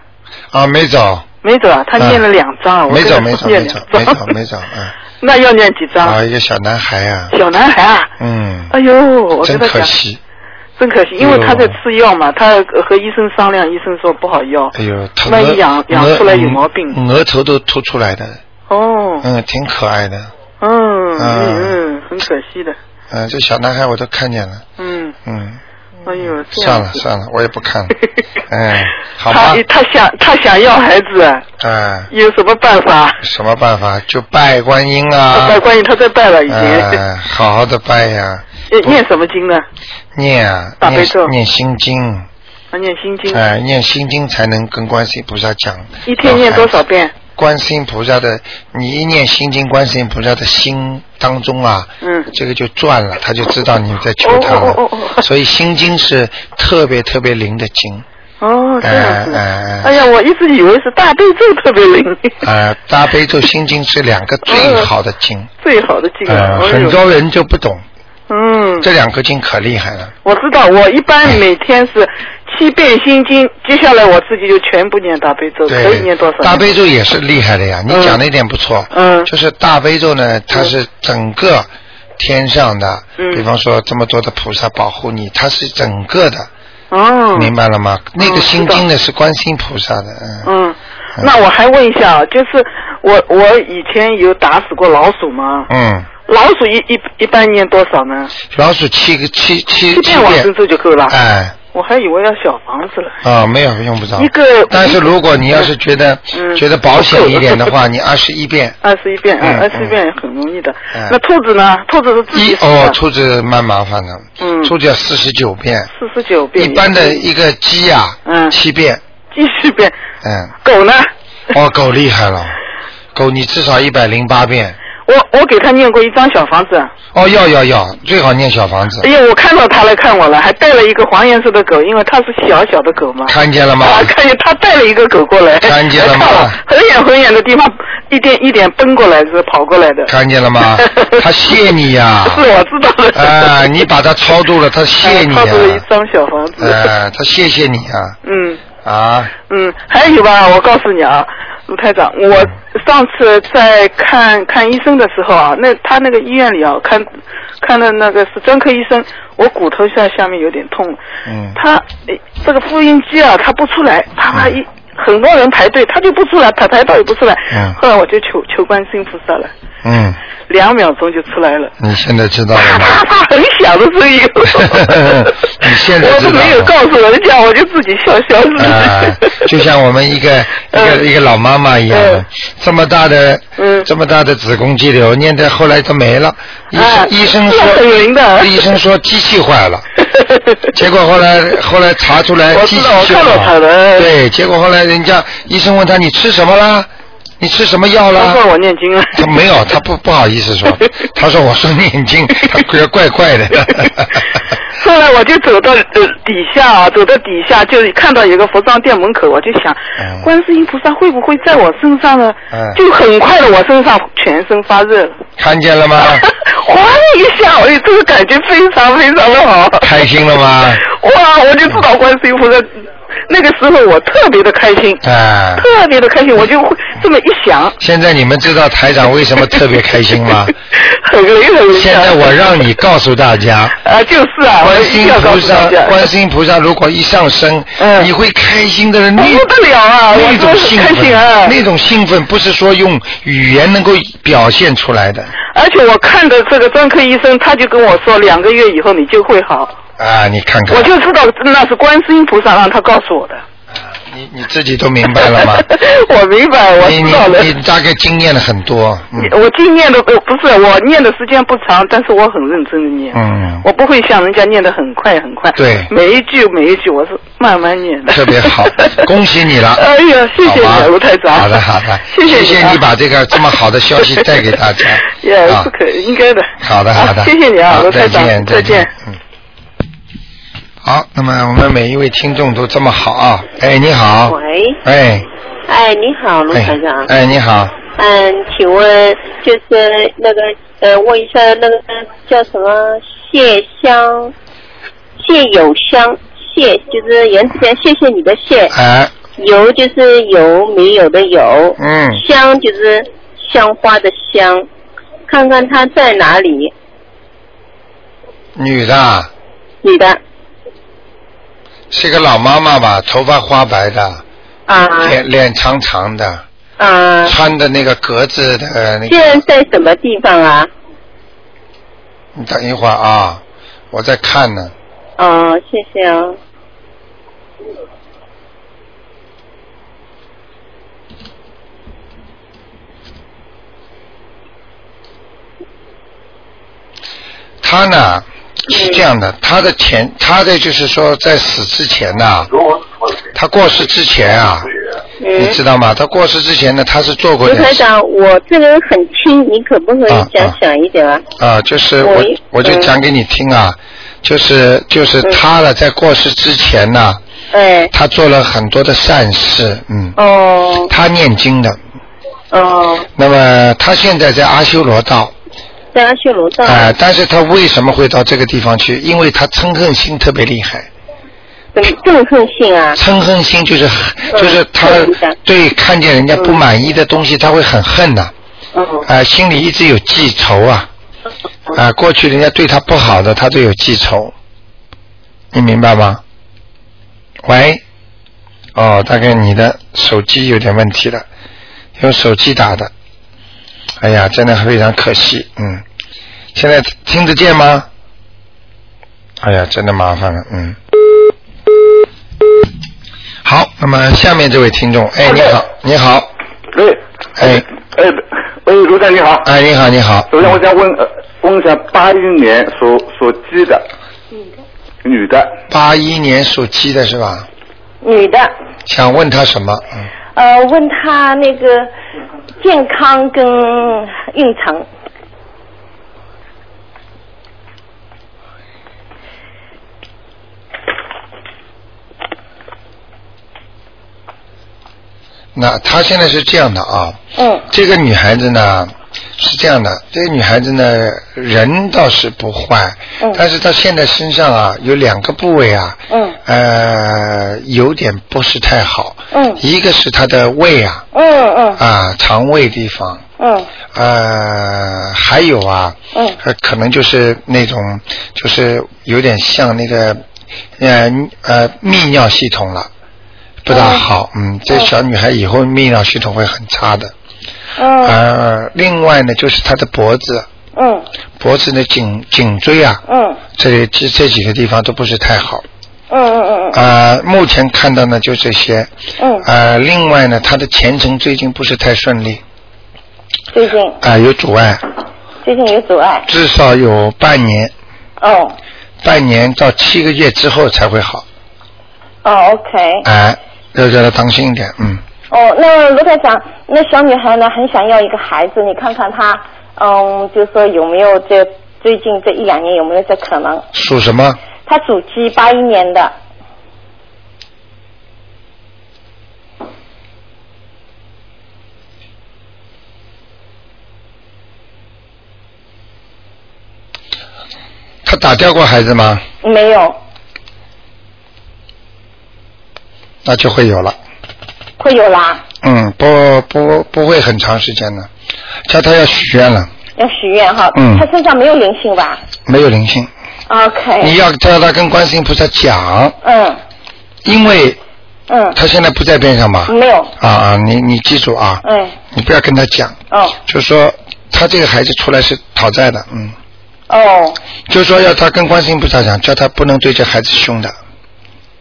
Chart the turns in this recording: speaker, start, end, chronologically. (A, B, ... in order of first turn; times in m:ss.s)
0:00.5-0:01.2 A
0:01.4-0:04.3 B
0:02.0-0:02.2 A
0:02.9-0:04.9 A
0:05.2-0:06.2 B
0:06.0-0:07.3 A
0:07.3-0:08.1 B
0:08.2-0:08.7 A
0:08.7-0:09.9 B
0:09.4-0:10.2 A
0:10.8-0:14.7 B
0:11.2-0:11.8 A
0:14.7-0:18.4 A
0:15.3-0:17.0 B
0:18.7-0:19.2 B
0:19.2-0:20.3 A
0:20.6-0:22.8 B
0:21.2-0:21.8 A
0:23.1-0:24.6 A
0:24.8-0:25.1 B
0:25.2-0:25.6 A
0:26.0-0:27.0 B
0:26.2-0:28.0 A
0:28.5-0:29.6 A
0:29.3-0:31.4 B
0:31.6-0:32.1 A
0:32.1-0:33.2 B
0:33.2-0:35.6 A
0:35.3-0:37.0 B
0:36.5-0:39.0 A
0:38.7-0:39.6 B
0:40.1-0:42.2 A
0:40.8-0:41.3 B
0:42.7-0:43.4 B
0:43.3-0:46.8 A
0:46.0-0:47.1 B
0:47.4-0:58.0 A
0:52.0-0:52.3 B
0:54.2-0:55.2 B
0:58.4-1:02.4 B
0:58.8-1:00.0 A
1:02.4-1:05.5 A
1:04.4-1:04.9 B
1:05.6-1:07.0 B
1:06.2-1:07.8 A
1:08.3-1:08.9 B
1:08.8-1:10.1 A
1:10.2-1:16.7 B
1:15.7-1:26.5 A
1:17.9-1:18.2 B
1:18.9-1:19.3 B
1:23.2-1:23.4 B
1:26.9-1:27.5 B
1:27.3-1:30.5 A
1:28.2-1:28.8 B
1:30.4-1:35.7 B
1:35.7-1:36.1 A
1:36.3-1:38.4 B
1:38.5-1:40.5 A
1:39.9-1:41.2 B
1:41.1-1:41.6 A
1:41.7-1:43.2 B
1:43.2-1:48.8 A
1:44.2-1:45.1 B
1:46.3-1:47.7 B
1:48.8-1:53.0 B
1:49.4-1:50.0 A
1:52.3-1:55.9 A
1:54.4-1:54.7 B
1:55.9-1:57.2 B
1:56.6-1:59.0 A
1:58.2-1:58.5 B
1:59.3-1:59.9 B
2:00.2-2:00.5 A
2:00.6-2:01.1 B
2:01.5-2:02.6 A
2:03.1-2:04.8 A
2:05.1-2:06.9 B
2:07.1-2:09.1 A
2:09.0-2:21.6 B
2:13.2-2:14.1 A
2:15.6-2:16.6 A
2:20.1-2:22.4 A
2:22.2-2:23.8 B
2:23.1-2:25.8 A
2:25.0-2:26.9 B
2:26.6-2:28.2 A
2:28.2-2:28.6 B
2:28.8-2:29.3 A
2:29.5-2:37.1 B
2:37.6-2:41.0 B
2:41.2-2:41.6 A
2:41.5-2:49.5 B
2:47.5-2:47.8 A
2:49.8-2:50.2 A
2:50.5-2:51.7 B
2:51.8-2:53.0 A
2:52.5-2:59.5 B
2:54.5-2:56.7 A
2:58.6-3:07.8 A
3:00.7-3:01.0 B
3:01.9-3:02.2 B
3:03.6-3:03.9 B
3:06.7-3:08.7 B
3:08.4-3:09.8 A
3:10.1-3:10.6 B
3:10.7-3:16.9 A
3:12.5-3:14.1 B
3:17.4-3:18.4 A
3:18.1-3:19.4 B
3:19.1-3:24.2 A
3:24.8-3:35.2 B
3:30.0-3:30.3 A
3:32.5-3:32.8 A
3:35.4-3:36.3 A
3:36.0-3:40.0 B
3:39.8-3:40.8 A
3:40.8-3:42.7 B
3:43.3-3:45.0 B
3:45.0-3:45.7 A
3:45.6-3:47.8 B
3:47.8-3:50.5 A
3:50.7-3:52.7 B
3:51.7-3:53.8 A
3:53.8-3:56.1 B
3:54.6-3:59.5 A
3:57.8-3:58.1 B
3:59.2-4:01.6 B
4:00.1-4:05.3 A
4:05.5-4:09.7 B
4:10.0-4:10.9 A
4:10.7-4:13.4 B
4:13.8-4:15.7 A
4:15.2-4:17.5 B
4:16.8-4:19.3 A
4:19.2-4:29.1 B
4:23.1-4:23.6 A
4:25.6-4:25.9 A
4:28.1-4:29.8 A
4:29.7-4:32.8 B
4:30.4-4:35.7 A
4:34.1-4:34.4 B
4:35.1-4:38.9 B
4:36.6-4:39.2 A
4:40.8-4:45.3 A
4:44.3-4:44.8 C
4:45.7-4:47.1 C
4:46.5-4:47.8 A
4:47.9-4:54.3 C
4:55.2-4:58.7 C
4:58.7-4:59.1 A
4:59.4-5:04.7 C
5:01.8-5:02.2 A
5:05.3-5:06.7 C
5:08.6-5:09.3 A
5:09.8-5:10.2 C
5:11.9-5:14.2 A
5:14.7-5:15.2 C
5:15.0-5:16.4 A
5:16.8-5:17.3 C
5:17.2-5:19.4 A
5:19.1-5:20.7 C
5:22.3-5:24.7 A
5:25.2-5:26.4 C
5:37.6-5:42.5 A
5:38.7-5:39.0 C
5:43.3-5:44.7 A
5:45.2-5:45.6 C
5:45.3-5:47.9 A
5:47.4-5:51.2 C
5:50.1-5:50.6 A
5:51.4-5:57.2 A
5:52.0-5:52.9 C
5:57.5-5:57.9 C
5:57.9-6:00.2 A
6:00.2-6:00.9 C
6:00.9-6:01.8 A
6:02.5-6:03.1 C
6:03.1-6:05.3 A
6:05.9-6:06.9 C
6:06.6-6:10.9 A
6:11.7-6:13.0 C
6:12.9-6:18.3 A
6:14.3-6:15.4 C
6:16.4-6:16.6 C
6:18.7-6:19.1 C
6:19.0-6:20.9 A
6:21.7-6:24.3 A
6:25.5-6:26.2 A
6:27.4-6:27.8 A
6:28.7-6:31.2 A
6:32.0-6:32.9 A
6:34.0-6:35.8 A
6:36.5-6:37.9 A
6:39.4-6:40.8 A
6:43.4-6:46.3 A
6:46.7-6:49.5 D
6:47.4-6:47.6 A
6:49.4-6:50.5 A
6:50.3-6:53.8 D
6:55.0-6:55.6 D
6:55.7-6:57.5 A
6:58.0-6:58.5 E
6:58.8-7:00.1 A
7:00.3-7:01.9 E
7:02.6-7:04.9 E
7:15.5-7:31.0 A
7:17.3-7:17.6 E
7:26.1-7:26.4 E
7:29.3-7:29.6 E
7:31.1-7:31.8 E
7:31.8-7:33.2 A
7:33.4-7:33.7 E
7:33.9-7:40.2 A
7:36.1-7:36.4 E
7:40.8-7:42.9 A
7:43.6-7:47.1 A
7:43.7-7:44.0 E
7:47.8-7:48.2 E
7:48.0-7:50.5 A
7:50.7-7:51.0 E
7:51.4-7:53.0 A
7:53.0-7:53.4 E
7:53.6-7:55.6 A
7:56.1-7:56.8 E
7:56.7-7:58.9 A
7:59.2-7:59.4 E
7:59.4-8:02.4 A
8:03.5-8:04.0 E
8:04.0-8:04.8 A
8:05.4-8:06.3 E
8:06.3-8:07.7 A
8:08.2-8:08.6 E
8:09.0-8:11.2 A
8:12.2-8:13.1 E
8:13.0-8:15.0 A
8:15.3-8:23.6 E
8:23.7-8:24.4 A
8:24.6-8:26.1 E
8:38.0-8:39.2 A
8:39.4-8:40.0 E
8:43.2-8:44.0 A
8:44.8-8:45.4 E
8:45.6-8:48.1 A
8:48.7-8:49.7 A
8:50.0-8:52.2 E
8:50.7-8:51.1 A
8:52.4-8:53.1 A
8:53.5-8:54.2 E
8:54.0-8:56.2 A
8:56.2-8:56.6 E
8:57.2-8:57.8 A
8:58.3-8:58.6 E
8:58.5-9:06.3 A
8:59.7-9:00.1 E
9:01.6-9:02.0 E
9:03.1-9:03.4 E
9:06.9-9:07.4 E
9:07.7-9:10.7 A